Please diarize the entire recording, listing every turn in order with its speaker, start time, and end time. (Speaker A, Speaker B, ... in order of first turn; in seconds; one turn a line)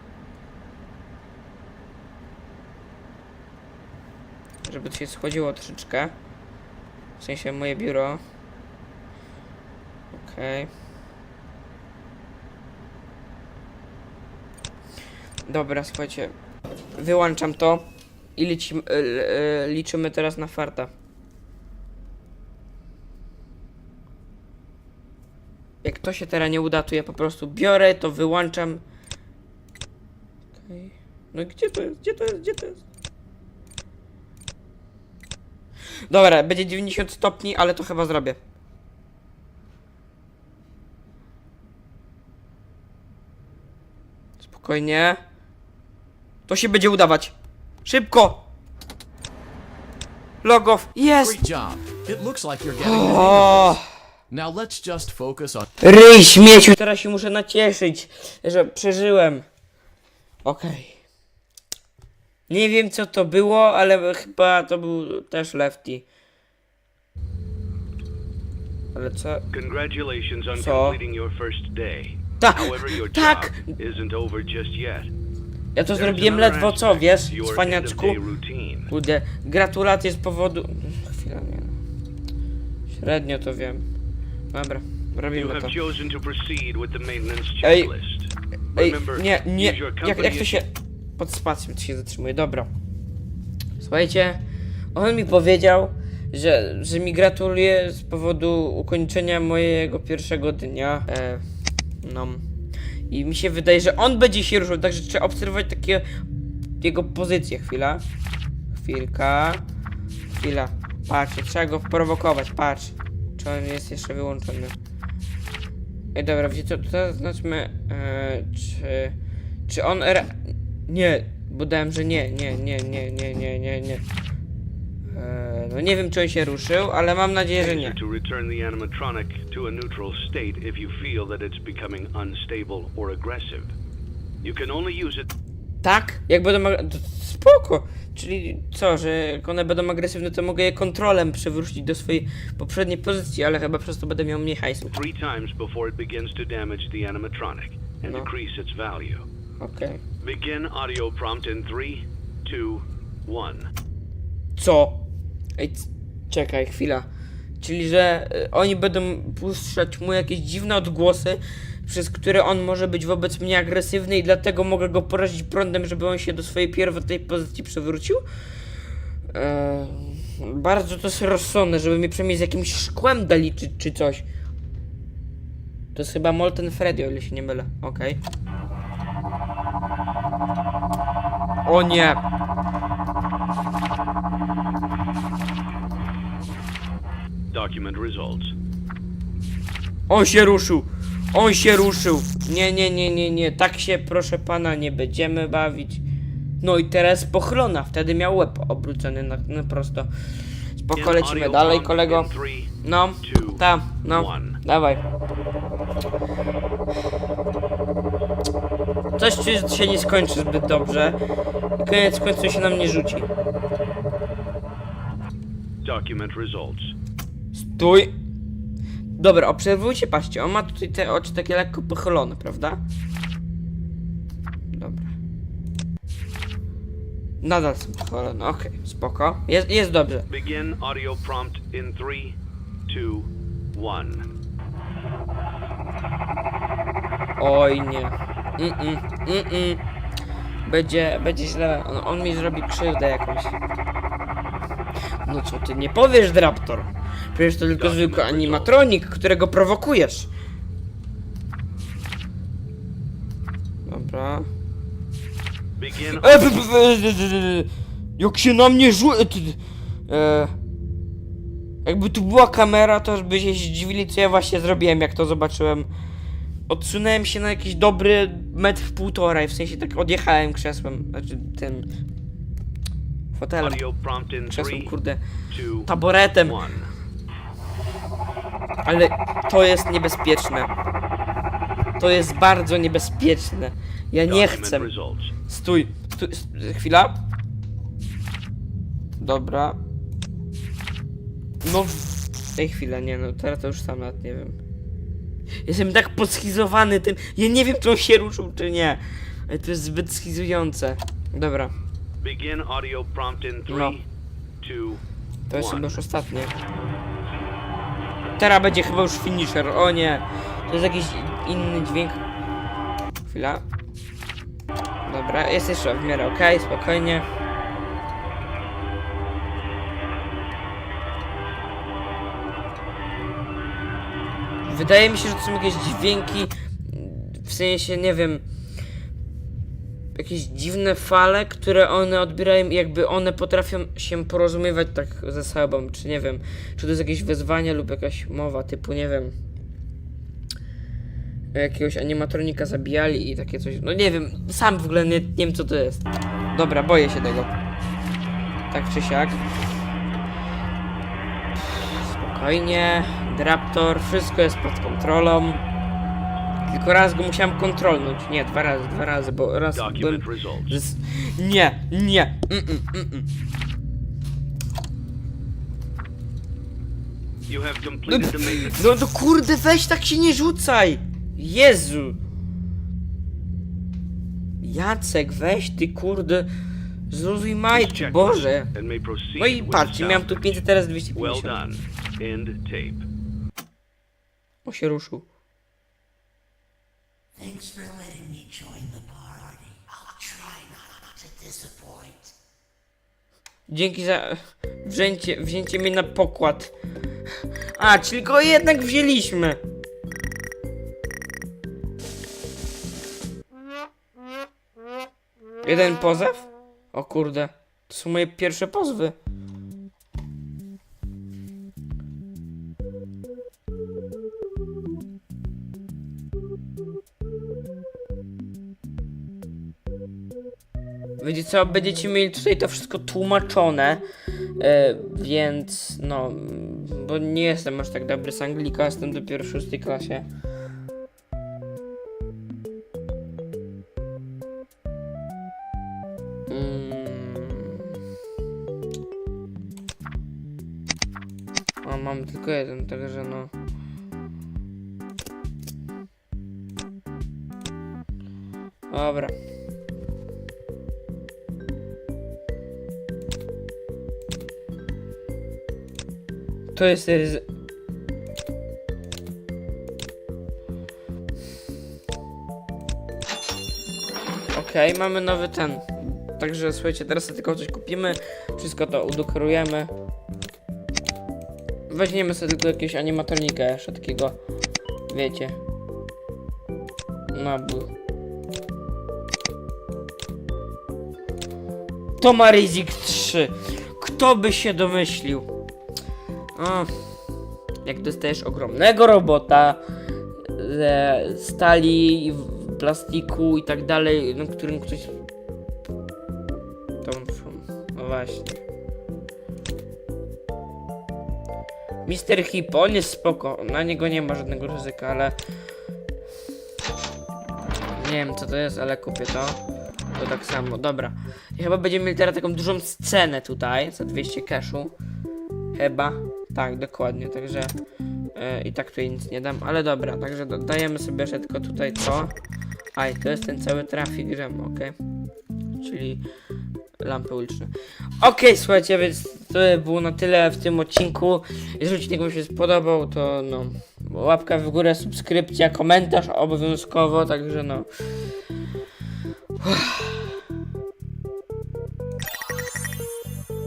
Speaker A: 4.7-6.2
Speaker A: 7.2-8.2
Speaker A: 10.1-10.7
Speaker A: 15.5-16.3
Speaker A: 16.9-20.9
Speaker A: 25.8-28.8
Speaker A: 30.6-32.8
Speaker A: 36.1-38.4
Speaker A: 44.4-45.2
Speaker A: 46.5-47.3
Speaker A: 47.9-48.5
Speaker A: 50.4-51.4
Speaker B: 51.2-53.8
Speaker A: 52.8-53.9
Speaker B: 54.3-55.7
Speaker A: 55.8-59.5
Speaker A: 60.4-61.0
Speaker A: 62.5-66.0
Speaker A: 68.9-69.4
Speaker C: 69.5-75.1
Speaker A: 70.5-71.0
Speaker A: 72.4-73.7
Speaker A: 75.8-78.2
Speaker C: 76.0-78.9
Speaker A: 78.9-81.8
Speaker A: 82.9-83.8
Speaker A: 84.5-85.8
Speaker C: 85.3-90.7
Speaker A: 87.6-87.9
Speaker A: 88.8-92.7
Speaker A: 93.8-94.4
Speaker A: 94.9-101.4
Speaker A: 102.0-102.4
Speaker A: 103.1-106.1
Speaker A: 106.8-108.0
Speaker A: 108.7-109.6
Speaker A: 110.3-114.8
Speaker A: 116.2-119.2
Speaker A: 119.7-124.0
Speaker A: 125.1-128.0
Speaker C: 127.6-133.7
Speaker C: 134.4-135.3
Speaker A: 135.8-145.0
Speaker C: 144.9-149.2
Speaker A: 149.6-150.0
Speaker C: 150.2-153.7
Speaker A: 154.6-155.0
Speaker A: 155.6-157.1
Speaker A: 157.6-168.2
Speaker A: 169.3-174.2
Speaker A: 175.9-178.2
Speaker A: 181.7-182.2
Speaker C: 187.5-188.5
Speaker A: 190.1-196.0
Speaker A: 196.6-200.1
Speaker A: 200.7-202.3
Speaker C: 201.0-204.6
Speaker A: 202.8-205.0
Speaker A: 209.2-211.2
Speaker A: 211.8-213.3
Speaker C: 215.8-216.9
Speaker A: 217.5-218.1
Speaker A: 219.2-222.8
Speaker A: 224.7-225.1
Speaker A: 227.4-230.3
Speaker C: 230.3-232.4
Speaker C: 232.9-234.3
Speaker A: 237.4-239.8
Speaker A: 240.7-243.6
Speaker A: 245.2-250.3
Speaker C: 247.8-248.7
Speaker A: 253.9-254.5
Speaker C: 255.8-256.6
Speaker A: 256.1-260.5
Speaker A: 261.9-265.9
Speaker A: 266.7-271.9
Speaker A: 273.4-273.8
Speaker C: 273.6-274.9
Speaker A: 274.5-275.2
Speaker C: 275.5-276.9
Speaker A: 275.9-276.6
Speaker A: 278.9-280.7
Speaker A: 282.0-284.9
Speaker C: 284.3-285.3
Speaker A: 285.5-287.2
Speaker A: 289.2-289.8
Speaker A: 291.6-294.6
Speaker A: 295.6-301.7
Speaker C: 302.2-304.0
Speaker A: 303.7-304.0
Speaker C: 304.6-306.0
Speaker A: 305.5-306.5
Speaker A: 308.4-312.2
Speaker A: 313.2-313.6
Speaker A: 315.1-317.3
Speaker A: 324.6-328.4
Speaker A: 330.1-339.3
Speaker A: 341.5-347.5
Speaker A: 348.7-349.4
Speaker A: 352.0-355.6
Speaker A: 356.7-363.3
Speaker C: 359.8-360.8
Speaker C: 367.5-368.8
Speaker A: 368.1-372.2
Speaker A: 374.6-376.5
Speaker A: 377.1-378.7
Speaker C: 377.7-383.1
Speaker A: 379.4-381.6
Speaker A: 384.6-385.2
Speaker D: 387.4-392.3
Speaker A: 393.7-396.7
Speaker A: 397.8-399.6
Speaker A: 405.6-409.1
Speaker A: 421.2-424.0
Speaker A: 424.6-430.3
Speaker A: 436.5-437.9
Speaker A: 441.8-443.5
Speaker A: 448.9-449.3
Speaker A: 456.7-457.4
Speaker A: 464.5-469.9
Speaker A: 471.9-474.4
Speaker A: 475.1-475.6
Speaker A: 477.3-477.9
Speaker A: 482.2-485.5
Speaker A: 486.6-487.1
Speaker A: 487.9-489.8
Speaker A: 490.4-495.2
Speaker A: 497.0-498.6
Speaker A: 502.1-505.4
Speaker A: 507.9-509.6
Speaker A: 510.1-514.9
Speaker A: 515.7-517.7
Speaker A: 518.3-522.3
Speaker A: 523.0-525.0
Speaker A: 525.8-526.2
Speaker A: 527.0-537.9
Speaker A: 539.6-540.4